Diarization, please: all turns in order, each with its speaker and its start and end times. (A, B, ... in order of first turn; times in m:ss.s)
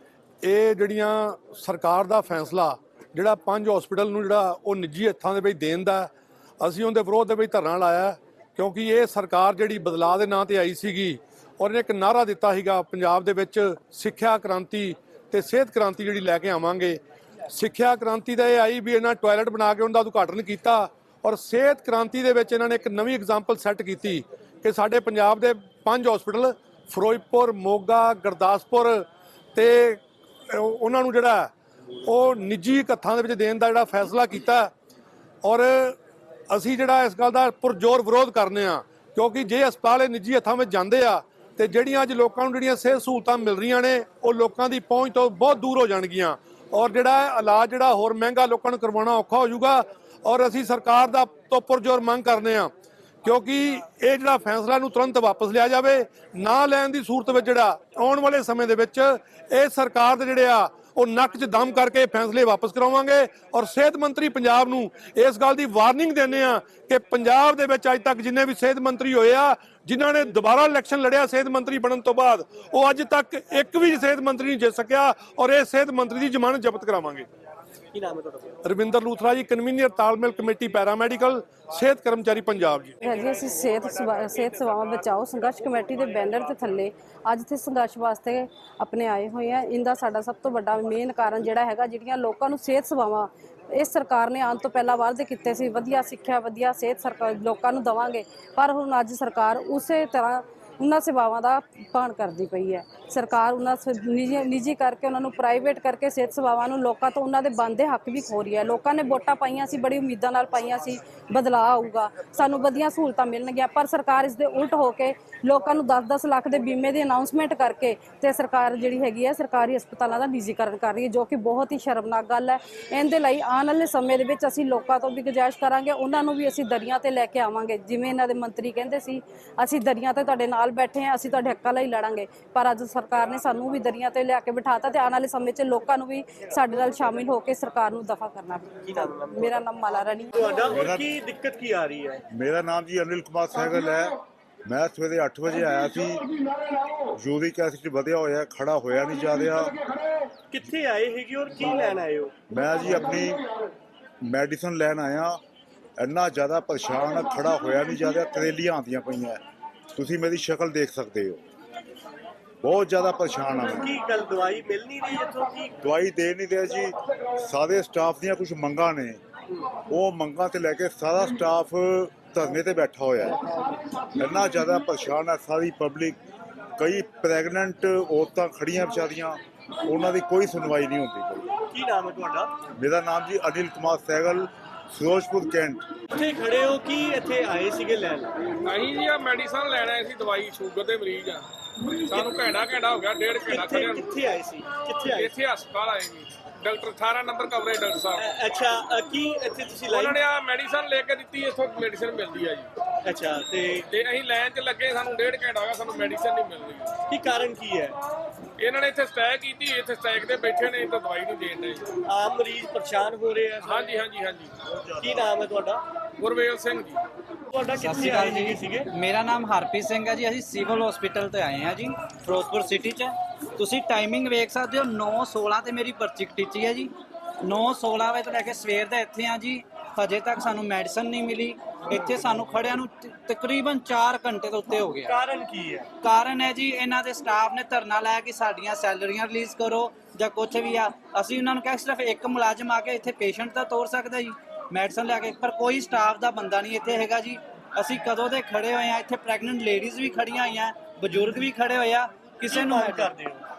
0:00.4-0:31.5 A
0:32.0-0:34.7 A
0:35.4-0:36.0 A
0:36.5-0:52.7 A
0:53.2-1:17.3 A
1:17.9-1:18.6 B
1:18.6-1:23.0 A
1:23.0-2:20.7 C
2:18.8-2:19.6 B
2:20.4-2:22.2 B
2:20.7-2:21.1 D
2:22.3-2:26.3 D
2:27.1-2:29.8 D
2:30.5-2:32.3 B
2:32.5-2:33.4 D
2:34.2-2:35.4 D
2:36.0-2:39.4 D
2:39.9-2:41.4 D
2:42.6-2:43.9 D
2:43.7-2:45.8 B
2:45.8-2:49.2 D
2:49.9-2:53.5 D
2:54.1-2:56.2 D
2:56.8-3:01.5 D
3:01.7-3:02.5 B
3:02.8-3:05.8 D
3:06.1-3:08.3 B
3:08.6-3:11.4 E
3:12.1-3:14.1 E
3:13.5-3:15.3 B
3:15.1-3:18.3 E
3:18.2-3:20.2 B
3:19.9-3:22.7 E
3:23.0-3:23.9 B
3:23.9-3:27.0 E
3:27.1-3:28.0 B
3:28.6-3:31.9 E
3:32.0-3:33.8 B
3:33.6-3:34.5 E
3:34.9-3:35.8 B
3:36.2-3:37.0 E
3:37.5-3:38.9 B
3:37.7-3:55.2 F
3:55.0-3:55.9 B
3:56.0-4:13.1 F
4:12.5-4:13.4 B